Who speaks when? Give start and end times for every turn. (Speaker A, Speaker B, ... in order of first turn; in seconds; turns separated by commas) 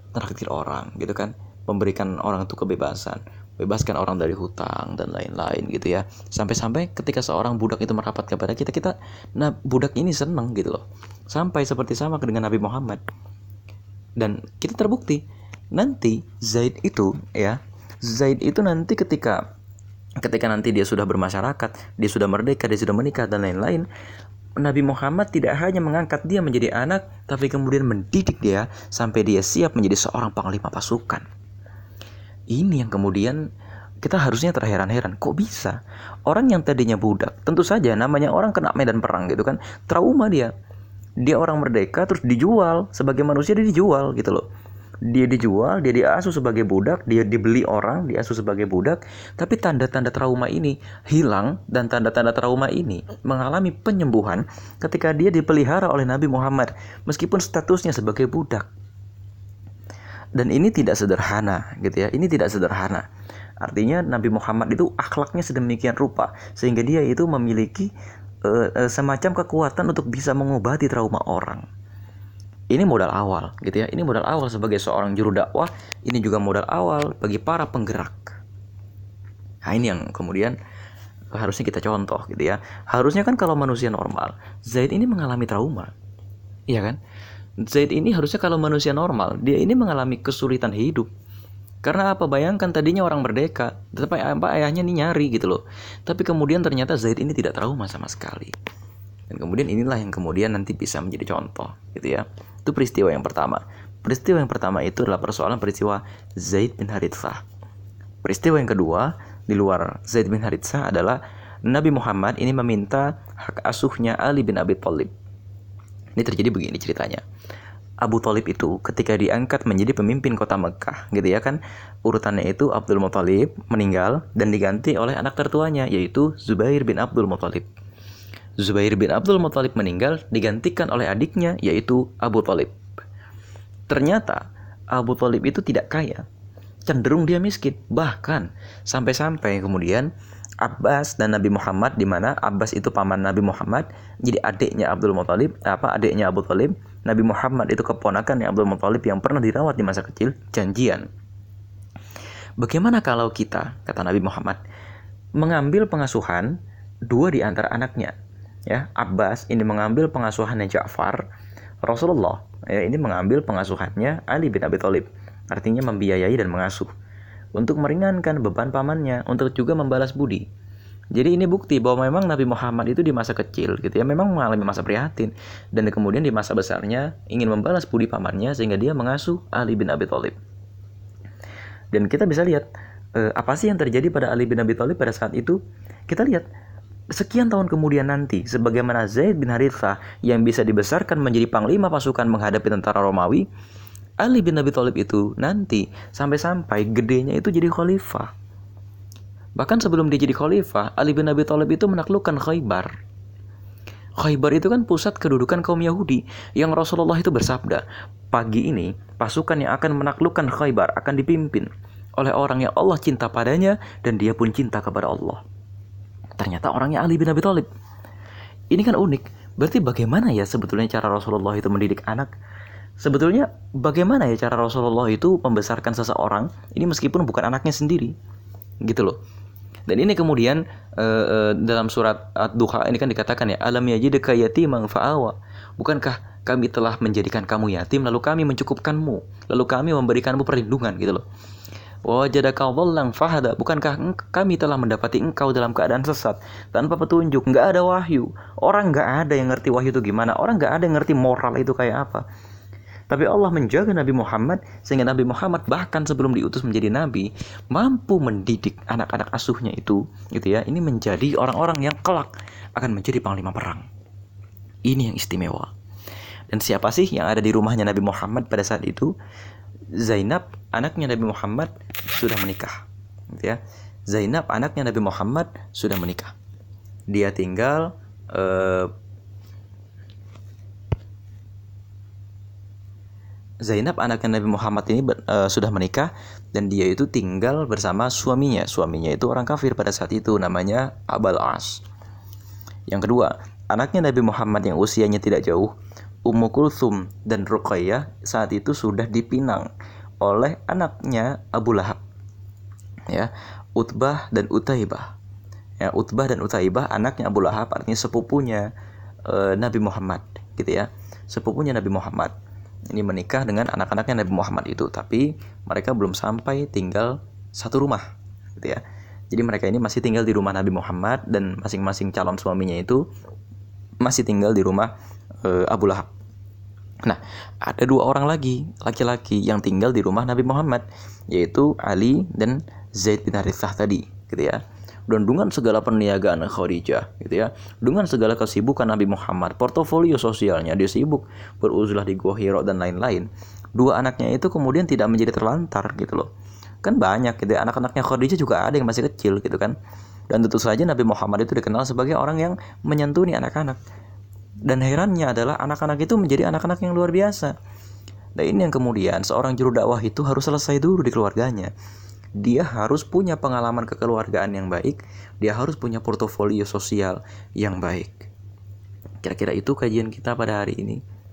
Speaker A: 0.1-13.0, Speaker A: 14.2-19.4, Speaker A: 20.2-23.9, Speaker A: 24.6-31.2, Speaker A: 32.5-33.4, Speaker A: 34.0-40.5, Speaker A: 41.2-44.4, Speaker A: 45.1-58.7, Speaker A: 60.4-63.1, Speaker A: 63.6-67.9, Speaker A: 68.4-71.6, Speaker A: 72.7-78.4, Speaker A: 79.7-80.6, Speaker A: 81.3-85.9, Speaker A: 86.7-87.0, Speaker A: 87.6-91.1, Speaker A: 91.8-98.5, Speaker A: 99.3-107.4, Speaker A: 108.2-115.1, Speaker A: 116.2-117.2, Speaker A: 118.0-127.7, Speaker A: 128.6-132.7, Speaker A: 133.9-136.3, Speaker A: 136.9-140.1, Speaker A: 140.6-151.1, Speaker A: 152.6-154.6, Speaker A: 155.4-156.6, Speaker A: 157.1-158.1, Speaker A: 158.7-161.2, Speaker A: 161.8-166.9, Speaker A: 167.6-170.4, Speaker A: 171.1-180.4, Speaker A: 181.9-186.5, Speaker A: 187.1-193.5, Speaker A: 194.2-198.3, Speaker A: 199.6-202.9, Speaker A: 204.2-215.4, Speaker A: 216.4-217.7, Speaker A: 218.7-222.3, Speaker A: 223.0-228.1, Speaker A: 228.8-229.2, Speaker A: 229.9-241.2, Speaker A: 242.1-252.2, Speaker A: 253.1-263.9, Speaker A: 264.9-265.7, Speaker A: 266.5-269.1, Speaker A: 269.9-272.8, Speaker A: 274.1-276.3, Speaker A: 277.1-278.9, Speaker A: 283.6-291.8, Speaker A: 292.9-295.7, Speaker A: 296.3-299.7, Speaker A: 300.2-302.0, Speaker A: 303.1-305.1, Speaker A: 305.8-308.7, Speaker A: 309.3-312.3, Speaker A: 312.9-323.0, Speaker A: 324.0-326.1, Speaker A: 327.0-346.3, Speaker A: 346.8-349.7, Speaker A: 350.3-353.8, Speaker A: 354.7-357.6, Speaker A: 358.4-361.7, Speaker A: 362.4-368.3, Speaker A: 369.2-371.0